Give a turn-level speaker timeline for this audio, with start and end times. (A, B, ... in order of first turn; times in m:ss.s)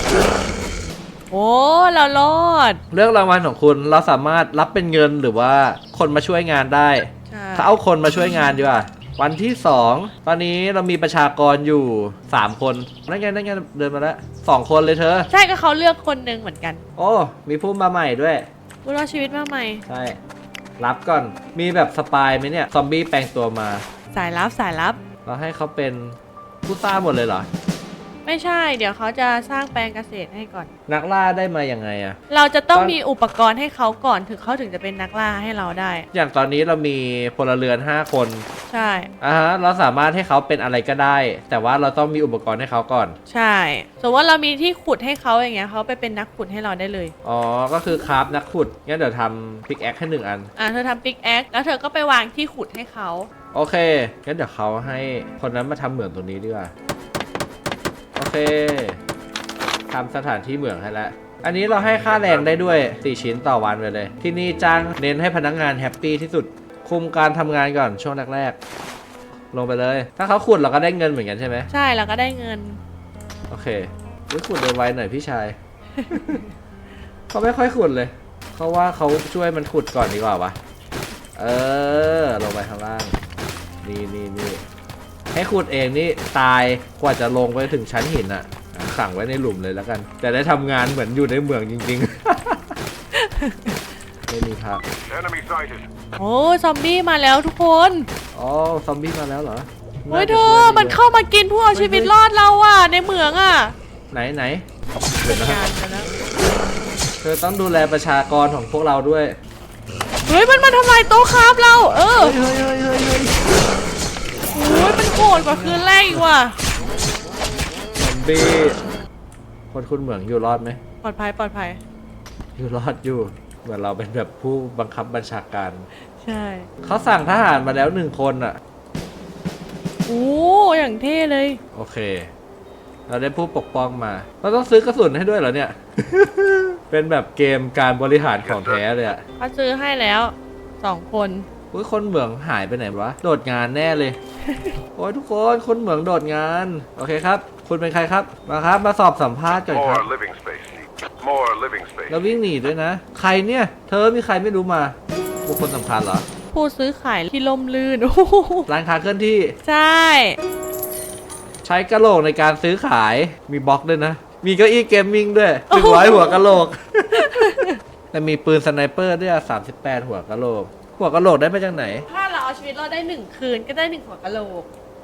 0:01.3-0:02.8 A
0:02.9-0:15.3 B
0:07.3-0:07.7 A
0:15.3-0:16.8 A
0:17.0-0:18.5 B
0:18.8-0:19.8 A
0:19.9-0:20.2 B
0:20.8-0:23.8 B
0:24.1-0:25.0 A
0:25.2-0:27.5 B
0:28.2-0:30.7 A
0:30.9-0:32.2 B
0:32.3-0:36.1 A
0:36.1-0:38.5 B
0:38.7-0:39.1 A
0:39.2-0:43.2 B
0:43.3-0:47.1 A
0:47.2-0:50.5 B
0:50.6-0:53.3 A
0:53.5-0:56.7 B
0:58.2-0:59.0 B
0:59.9-1:08.6 B
1:09.5-1:11.7 B
1:11.7-1:12.8 A
1:13.5-1:15.6 B
1:16.0-1:16.4 A
1:16.1-1:16.4 B
1:17.3-1:20.6 B
1:21.4-1:23.2 B
1:23.8-1:24.6 B
1:25.3-1:32.8 B
1:33.1-1:33.8 A
1:34.3-1:34.8 B
1:35.1-1:35.8 C
1:36.2-1:38.1 A
1:38.3-1:41.0 B
1:40.1-1:43.8 A
1:41.7-1:42.1 B
1:44.1-1:44.6 B
1:45.1-1:46.1 A
1:45.2-1:45.6 B
1:47.2-1:49.4 B
1:50.3-1:52.4 A
1:52.2-1:53.4 B
1:54.5-1:56.6 A
1:54.9-1:56.2 B
1:58.0-1:58.8 B
1:59.7-2:00.8 B
2:01.0-2:01.8 A
2:02.6-2:05.9 B
2:06.2-2:06.7 A
2:06.8-2:08.6 B
2:10.1-2:11.6 A
2:11.7-2:12.3 B
2:13.1-2:19.2 B
2:19.4-2:21.5 A
2:21.7-2:24.2 B
2:24.5-2:24.8 A
2:25.0-2:30.1 B
2:29.7-2:32.2 C
2:32.1-2:36.3 B
2:36.5-2:38.7 A
2:38.7-2:39.6 B
2:39.6-2:40.4 A
2:41.6-2:52.1 B
2:45.7-2:46.4 A
2:47.2-2:47.8 A
2:52.1-2:54.7 A